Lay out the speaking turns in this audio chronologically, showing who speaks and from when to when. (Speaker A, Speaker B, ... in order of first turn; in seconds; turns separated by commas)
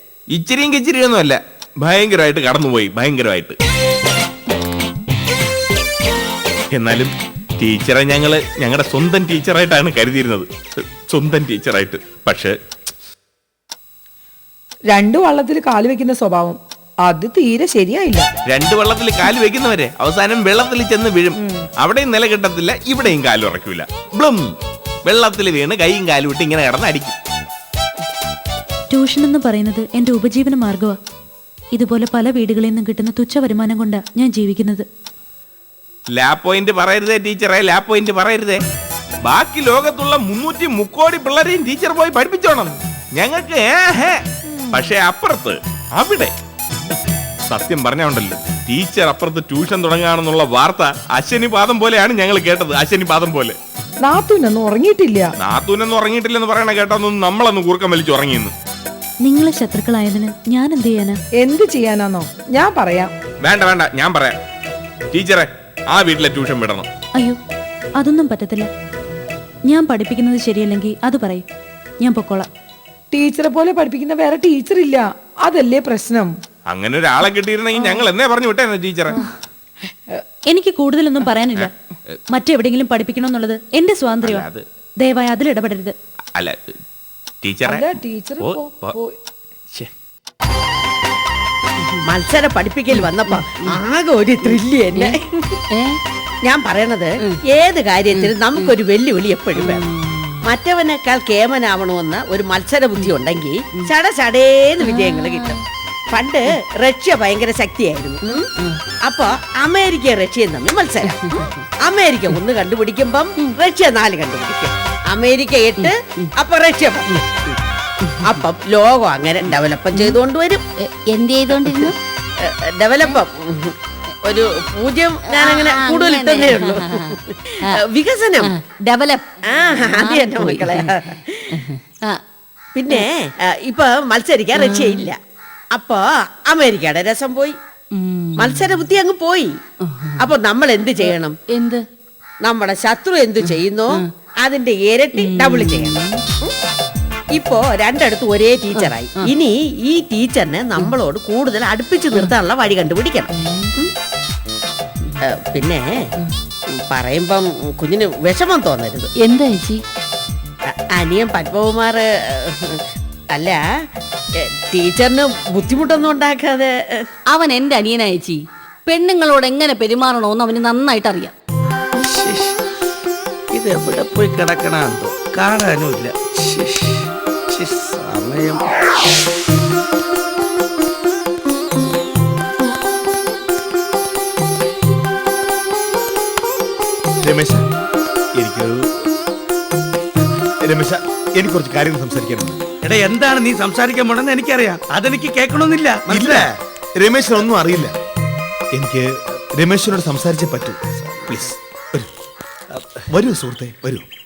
Speaker A: 0.3-3.6, Speaker A: 6.7-12.6, Speaker B: 14.9-18.3, Speaker A: 18.5-24.5, Speaker B: 21.4-21.7, Speaker A: 25.1-27.2, Speaker C: 28.9-31.0, Speaker C: 31.8-34.9, Speaker A: 36.1-38.6, Speaker A: 39.2-44.2, Speaker B: 44.5-44.9, Speaker A: 44.7-46.3, Speaker A: 47.5-53.6, Speaker B: 54.0-55.3, Speaker A: 55.4-58.5, Speaker C: 59.2-61.2, Speaker B: 61.4-63.1, Speaker A: 63.4-64.4, Speaker A: 65.1-66.9, Speaker C: 68.0-68.7, Speaker C: 69.7-71.5, Speaker C: 72.0-72.5, Speaker B: 73.1-76.3, Speaker A: 76.7-79.2, Speaker B: 77.8-78.1, Speaker C: 80.5-81.7, Speaker A: 81.6-82.2, Speaker C: 82.3-84.5, Speaker A: 84.2-84.6, Speaker C: 85.0-86.0, Speaker A: 86.3-86.7, Speaker A: 87.4-89.0, Speaker B: 87.7-89.1, Speaker D: 92.0-95.4, Speaker E: 92.9-93.7, Speaker E: 94.4-95.1, Speaker E: 95.7-96.0, Speaker D: 96.4-99.9, Speaker E: 98.1-98.7, Speaker E: 99.6-100.5, Speaker D: 100.4-105.6, Speaker E: 104.8-105.6, Speaker D: 106.1-108.5, Speaker D: 109.0-117.2, Speaker E: 111.1-111.6, Speaker E: 115.8-116.3, Speaker D: 118.2-120.6, Speaker E: 120.8-122.0, Speaker D: 121.5-121.9, Speaker D: 122.4-123.8, Speaker D: 124.3-128.5, Speaker E: 125.3-127.1, Speaker E: 128.4-130.9, Speaker D: 129.5-131.6, Speaker E: 131.6-132.2, Speaker D: 132.8-135.2, Speaker E: 134.5-135.1, Speaker D: 135.7-137.6, Speaker E: 137.9-138.8, Speaker D: 138.4-139.6, Speaker E: 139.9-140.3, Speaker D: 140.2-141.4, Speaker E: 141.0-141.8, Speaker D: 142.4-146.5, Speaker E: 143.4-144.1, Speaker E: 145.1-146.2, Speaker D: 147.3-153.9, Speaker E: 148.8-149.3, Speaker E: 153.3-153.7, Speaker D: 155.3-155.9, Speaker D: 156.8-159.1, Speaker E: 159.2-159.8, Speaker D: 160.7-162.8, Speaker D: 163.3-163.6, Speaker D: 164.4-166.7, Speaker E: 167.3-171.3, Speaker F: 172.0-172.6, Speaker F: 173.5-178.7, Speaker G: 187.2-187.7, Speaker G: 188.3-188.9, Speaker G: 190.6-192.6, Speaker F: 192.8-196.5, Speaker G: 196.1-198.0, Speaker G: 198.7-202.1, Speaker F: 201.2-201.5, Speaker G: 203.1-204.1